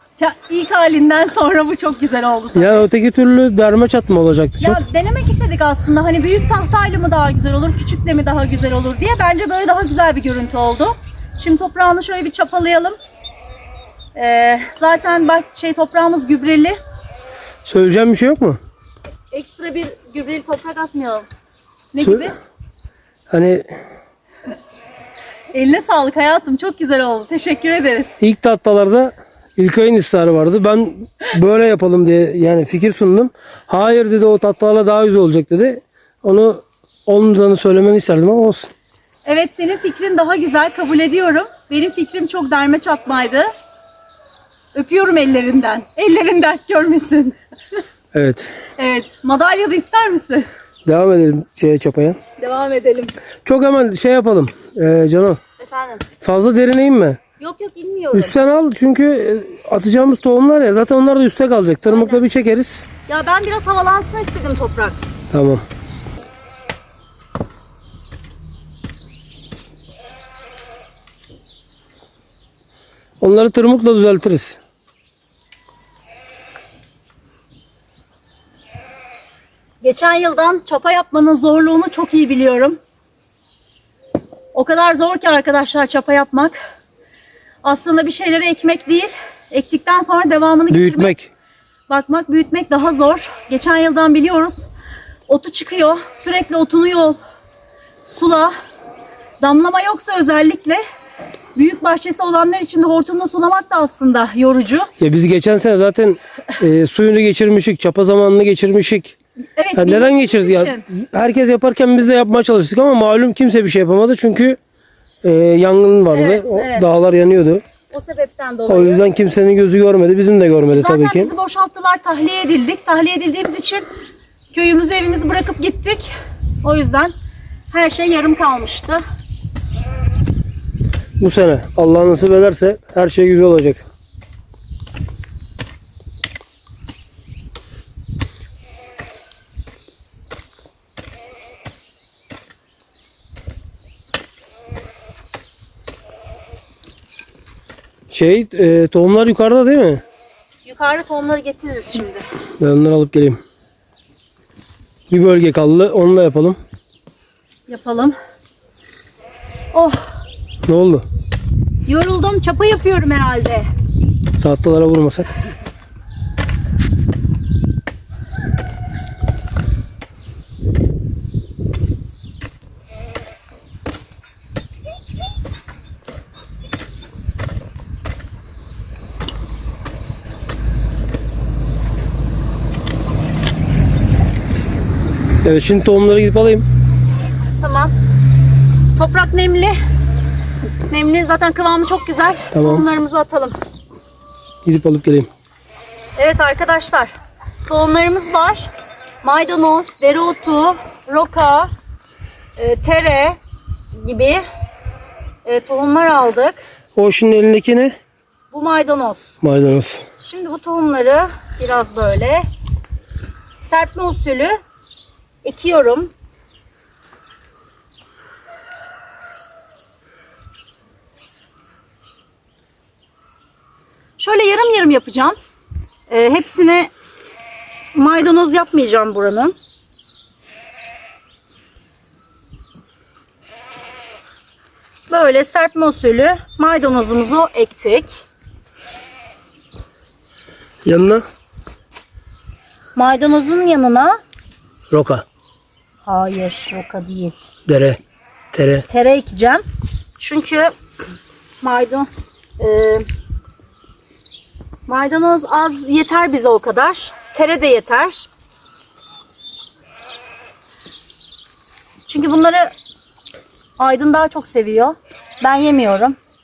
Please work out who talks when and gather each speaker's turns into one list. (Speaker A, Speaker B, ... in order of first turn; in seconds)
Speaker A: 0.2-2.8, 4.6-13.0, 14.2-16.8, 19.3-21.3, 21.9-22.4, 25.5-28.2, 39.2-43.5, 44.8-47.4, 48.8-50.5, 52.4-53.1, 55.6-56.0, 57.4-58.3, 61.9-62.2, 63.1-65.0, 79.8-82.8, 84.5-86.6, 87.6-91.1, 91.9-94.7, 95.3-97.2, 98.0-98.5, 99.4-100.8, 101.6-104.9, 109.6-110.8, 116.1-116.9, 117.9-119.1, 120.7-123.9, 124.5-126.1, 126.6-127.1, 127.7-129.0, 150.7-152.3, 157.7-158.2, 159.7-160.0, 161.9-163.7, 187.6-187.9, 189.0-189.8, 190.9-193.6, 196.2-197.1, 197.7-198.7, 199.2-201.7, 202.6-203.4, 203.9-204.4, 205.4-206.6, 208.5-209.3, 210.2-212.4, 213.6-214.6, 215.4-216.1, 224.2-225.4, 226.1-226.9, 227.9-229.5, 235.1-238.2, 243.0-244.2, 246.1-247.4, 248.9-249.6, 250.2-250.7, 251.6-253.1, 254.9-258.3, 262.1-262.7, 263.8-266.2
Speaker B: 2.5-4.8, 17.6-18.6, 22.0-22.3, 23.3-23.7, 28.2-38.7, 48.1-48.5, 50.9-52.2, 53.5-55.4, 56.2-57.2, 58.1-62.9, 65.3-65.6, 73.2-74.6, 90.7-91.3, 105.0-109.2, 109.8-114.6, 115.2-117.6, 118.7-121.3, 131.2-133.8, 148.1-150.0, 152.6-153.4, 155.1-156.6, 160.7-161.1, 164.4-165.3, 185.4-186.7, 192.5-192.9, 194.7-195.3, 206.9-208.0, 209.4-210.0, 240.8-241.2, 244.9-245.2, 247.7-248.0, 248.5-248.9